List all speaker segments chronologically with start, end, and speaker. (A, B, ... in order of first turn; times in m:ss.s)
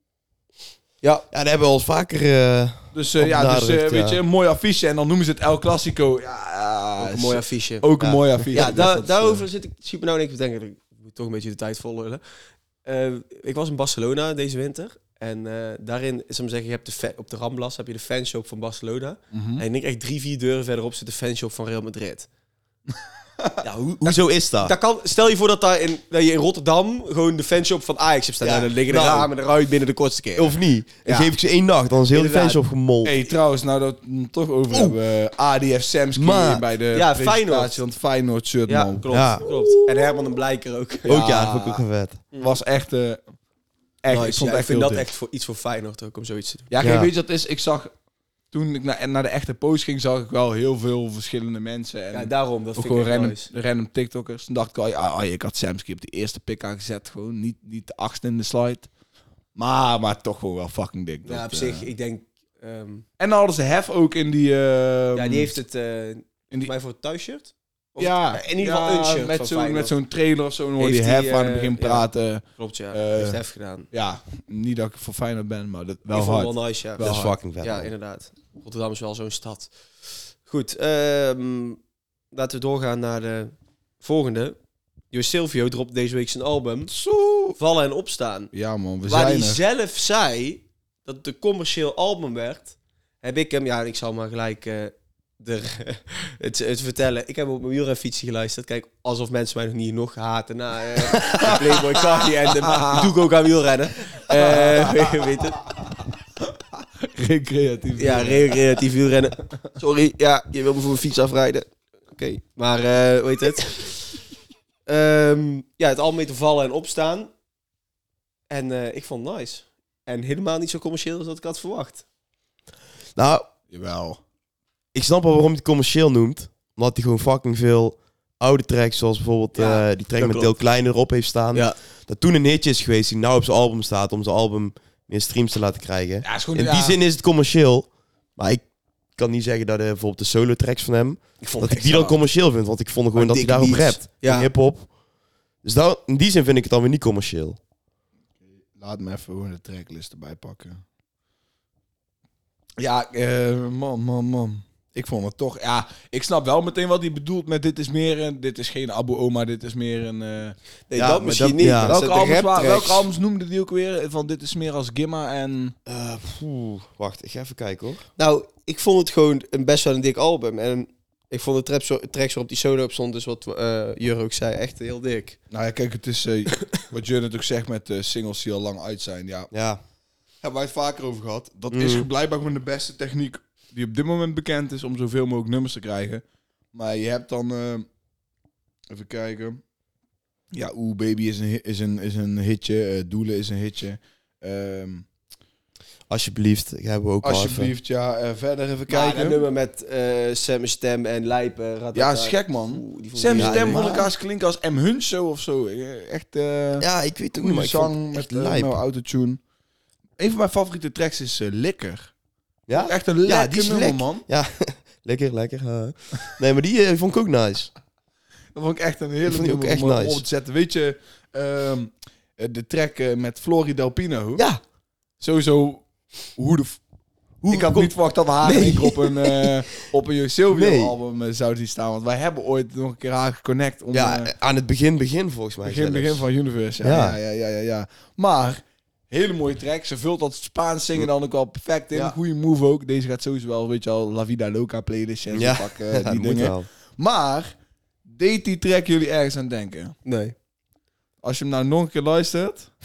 0:01.3-0:04.2 A
0:02.9-0:09.5 B
0:07.0-0:07.8 C
0:08.0-0:08.8 A
0:08.5-0:12.2 C
0:12.8-0:22.3 C
0:19.3-0:19.6 B
0:23.6-0:24.7 A
0:24.6-0:31.3 C
0:28.4-0:29.3 A
0:30.4-0:33.3 A
0:32.1-0:32.6 C
0:33.0-0:39.3 B
0:34.7-0:35.0 A
0:36.2-0:36.6 A
0:36.9-0:37.8 C
0:38.6-0:41.2 C
0:39.1-0:39.7 A
0:41.1-0:41.8 B
0:41.1-0:42.2 A
0:42.4-0:43.2 B
0:44.0-0:45.0 B
0:44.1-0:46.7 C
0:46.7-0:47.9 B
0:46.8-0:47.1 A
0:48.5-0:58.9 B
0:52.1-0:53.5 C
0:59.5-1:01.9 B
1:01.2-1:03.0 C
1:03.2-1:05.5 B
1:05.1-1:09.9 C
1:08.0-1:13.4 B
1:10.8-1:13.9 C
1:13.9-1:17.4 B
1:16.1-1:19.7 C
1:17.0-1:17.9 A
1:20.4-1:21.8 C
1:22.3-1:24.6 C
1:25.1-1:26.9 C
1:26.9-1:27.6 B
1:27.6-1:28.5 C
1:28.5-1:29.6 B
1:29.0-1:45.6 C
1:41.2-1:41.6 B
1:42.6-1:43.1 B
1:44.3-1:45.3 B
1:46.7-1:48.6 B
1:48.0-1:53.9 C
1:54.9-1:57.3 C
1:58.5-2:02.0 C
2:03.2-2:03.5 A
2:03.7-2:04.2 B
2:04.9-2:18.6 A
2:09.5-2:10.5 C
2:16.2-2:17.0 B
2:19.2-2:24.9 A
2:21.4-2:22.2 C
2:23.1-2:24.5 C
2:25.6-2:27.6 A
2:28.7-2:30.8 B
2:32.8-2:40.6 B
2:40.9-2:43.0 C
2:41.0-2:42.0 A
2:41.6-2:45.7 B
2:45.8-2:48.0 A
2:48.2-2:55.4 C
2:55.5-2:59.5 B
2:59.5-2:59.8 A
3:00.4-3:06.2 B
3:01.7-3:02.0 A
3:06.7-3:07.8 B
3:08.9-3:09.6 B
3:10.5-3:15.0 B
3:16.1-3:17.7 A
3:17.2-3:19.4 B
3:18.9-3:24.0 C
3:21.9-3:29.4 B
3:23.3-3:24.1 A
3:26.8-3:28.8 A
3:30.2-3:32.1 B
3:32.7-3:37.7 A
3:32.8-3:34.2 B
3:38.5-3:44.4 B
3:39.2-3:40.2 A
3:44.4-3:44.6 A
3:45.2-3:46.8 B
3:47.4-3:49.6 A
3:47.4-3:54.3 B
3:50.5-3:51.0 A
3:53.9-3:56.2 A
3:55.6-4:07.5 B
3:56.8-3:57.2 A
4:05.3-4:06.6 A
4:08.0-4:10.0 B
4:10.0-4:10.3 C
4:11.2-4:12.7 B